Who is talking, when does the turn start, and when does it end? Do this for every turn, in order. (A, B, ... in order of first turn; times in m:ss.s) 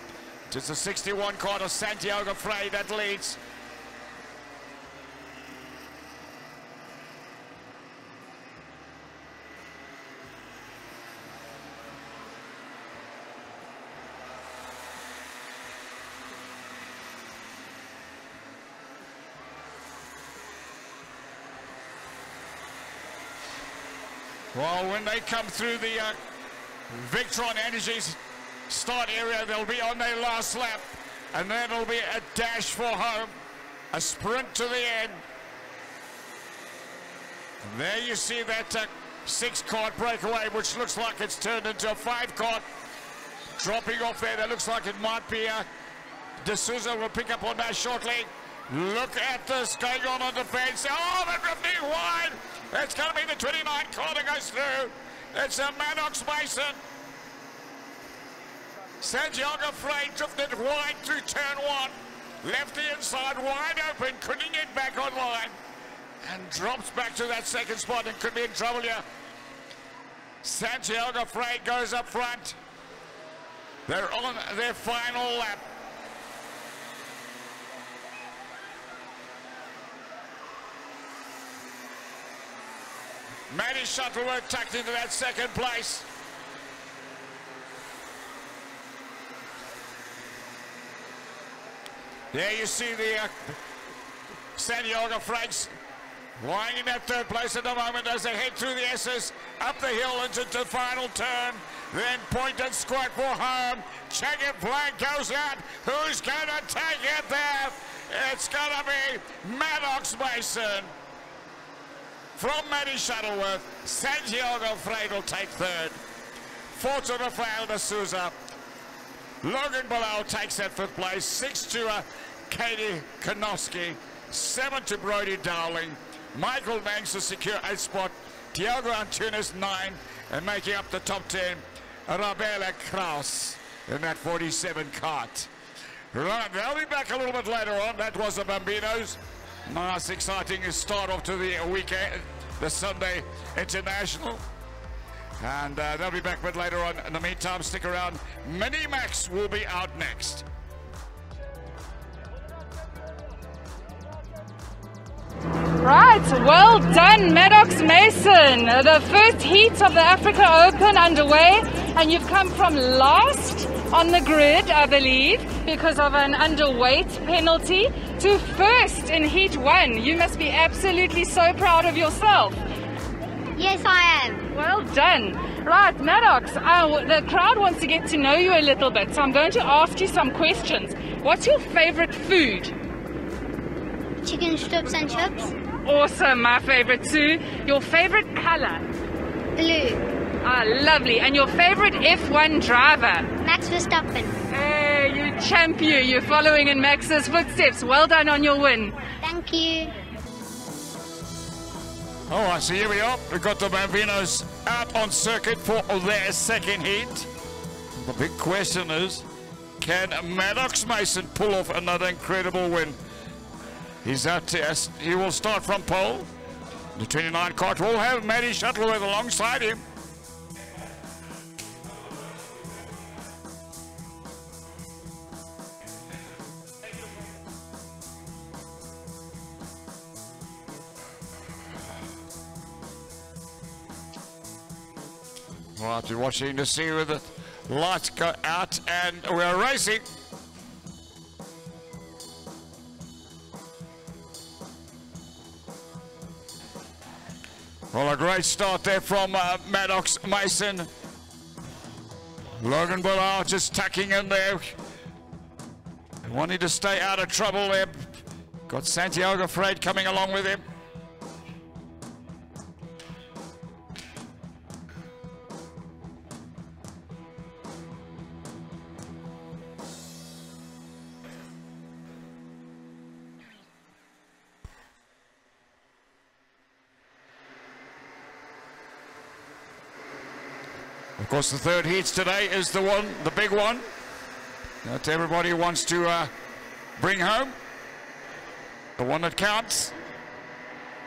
0:00.5-0:03.4 A
0:24.5-0:26.2 A
0:26.9-0:28.2 A
0:28.7-0:33.4 A
0:33.9-0:35.2 A
0:37.6-0:42.7 A
0:43.6-0:45.7 A
0:46.4-0:56.8 A
0:59.0-1:05.6 A
1:06.2-1:09.0 A
1:10.4-1:12.6 A
1:13.9-1:15.7 A
1:23.5-1:26.1 A
1:32.3-1:33.6 A
1:34.6-1:35.7 A
1:36.4-1:50.9 A
1:52.4-1:56.0 A
1:56.7-1:58.4 A
1:59.4-2:15.5 A
2:16.1-2:24.4 A
2:25.4-2:30.5 A
2:35.8-2:52.6 B
2:53.6-2:54.5 C
2:54.5-3:02.8 B
3:04.2-3:05.5 C
3:05.8-3:08.8 B
3:09.6-3:10.1 C
3:10.4-3:13.3 B
3:13.4-3:14.4 C
3:14.5-3:19.0 B
3:19.2-3:19.9 C
3:22.3-3:27.3 A
3:28.0-3:29.3 A
3:29.8-3:33.0 A
3:34.0-3:36.3 A
3:37.0-3:39.8 A
3:55.8-4:00.0 A
4:07.9-4:10.9 A
4:12.6-4:14.8 A
4:16.2-4:18.0 A
4:18.7-4:20.6 A
4:41.2-4:43.9 A
4:44.8-4:46.3 A
4:47.0-4:47.6 A
4:49.0-4:50.0 A